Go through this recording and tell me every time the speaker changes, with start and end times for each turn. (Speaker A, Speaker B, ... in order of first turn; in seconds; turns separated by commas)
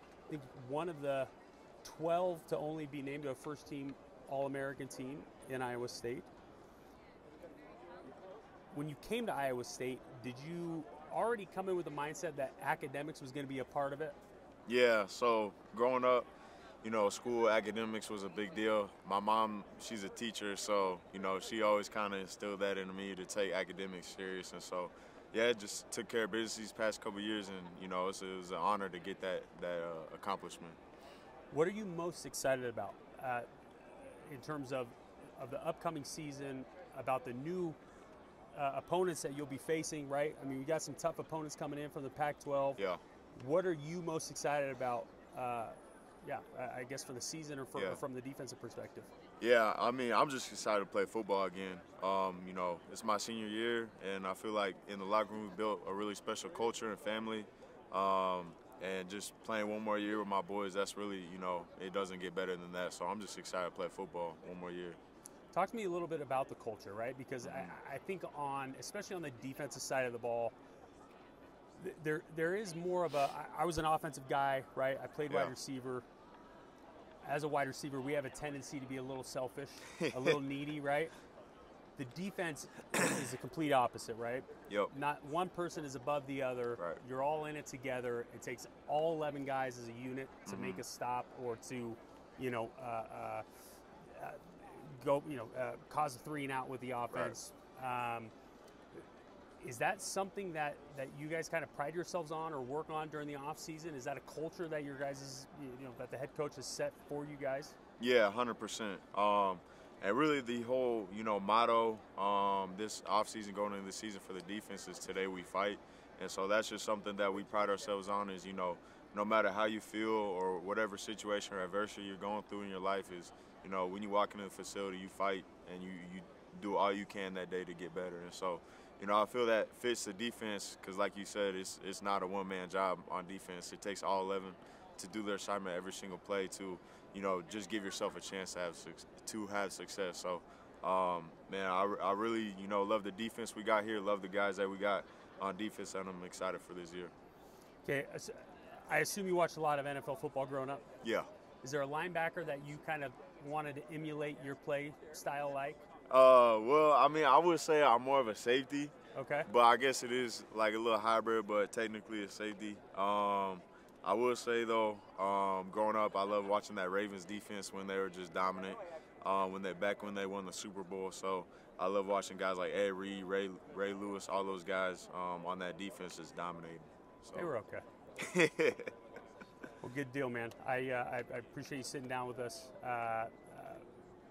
Speaker A: 0.3-1.3, Speaker A: 1.8-6.3, Speaker A: 8.7-14.2, Speaker B: 14.7-16.3, Speaker B: 16.8-30.8, Speaker A: 31.5-37.8, Speaker A: 38.5-42.8, Speaker A: 43.4-49.1, Speaker B: 49.4-65.0, Speaker A: 65.5-70.5, Speaker B: 67.4-67.8, Speaker A: 71.8-76.0, Speaker A: 77.2-81.1, Speaker B: 80.0-80.4, Speaker A: 82.0-93.5, Speaker B: 90.5-90.8, Speaker A: 94.0-98.3, Speaker B: 97.1-97.4, Speaker A: 99.6-107.8, Speaker B: 108.0-147.1, Speaker A: 147.8-150.9, Speaker B: 151.0-151.3, Speaker A: 151.6-155.8, Speaker B: 156.1-158.9, Speaker A: 159.1-159.5, Speaker B: 159.4-177.5, Speaker A: 177.3-177.8, Speaker B: 178.2-178.9, Speaker A: 179.8-183.9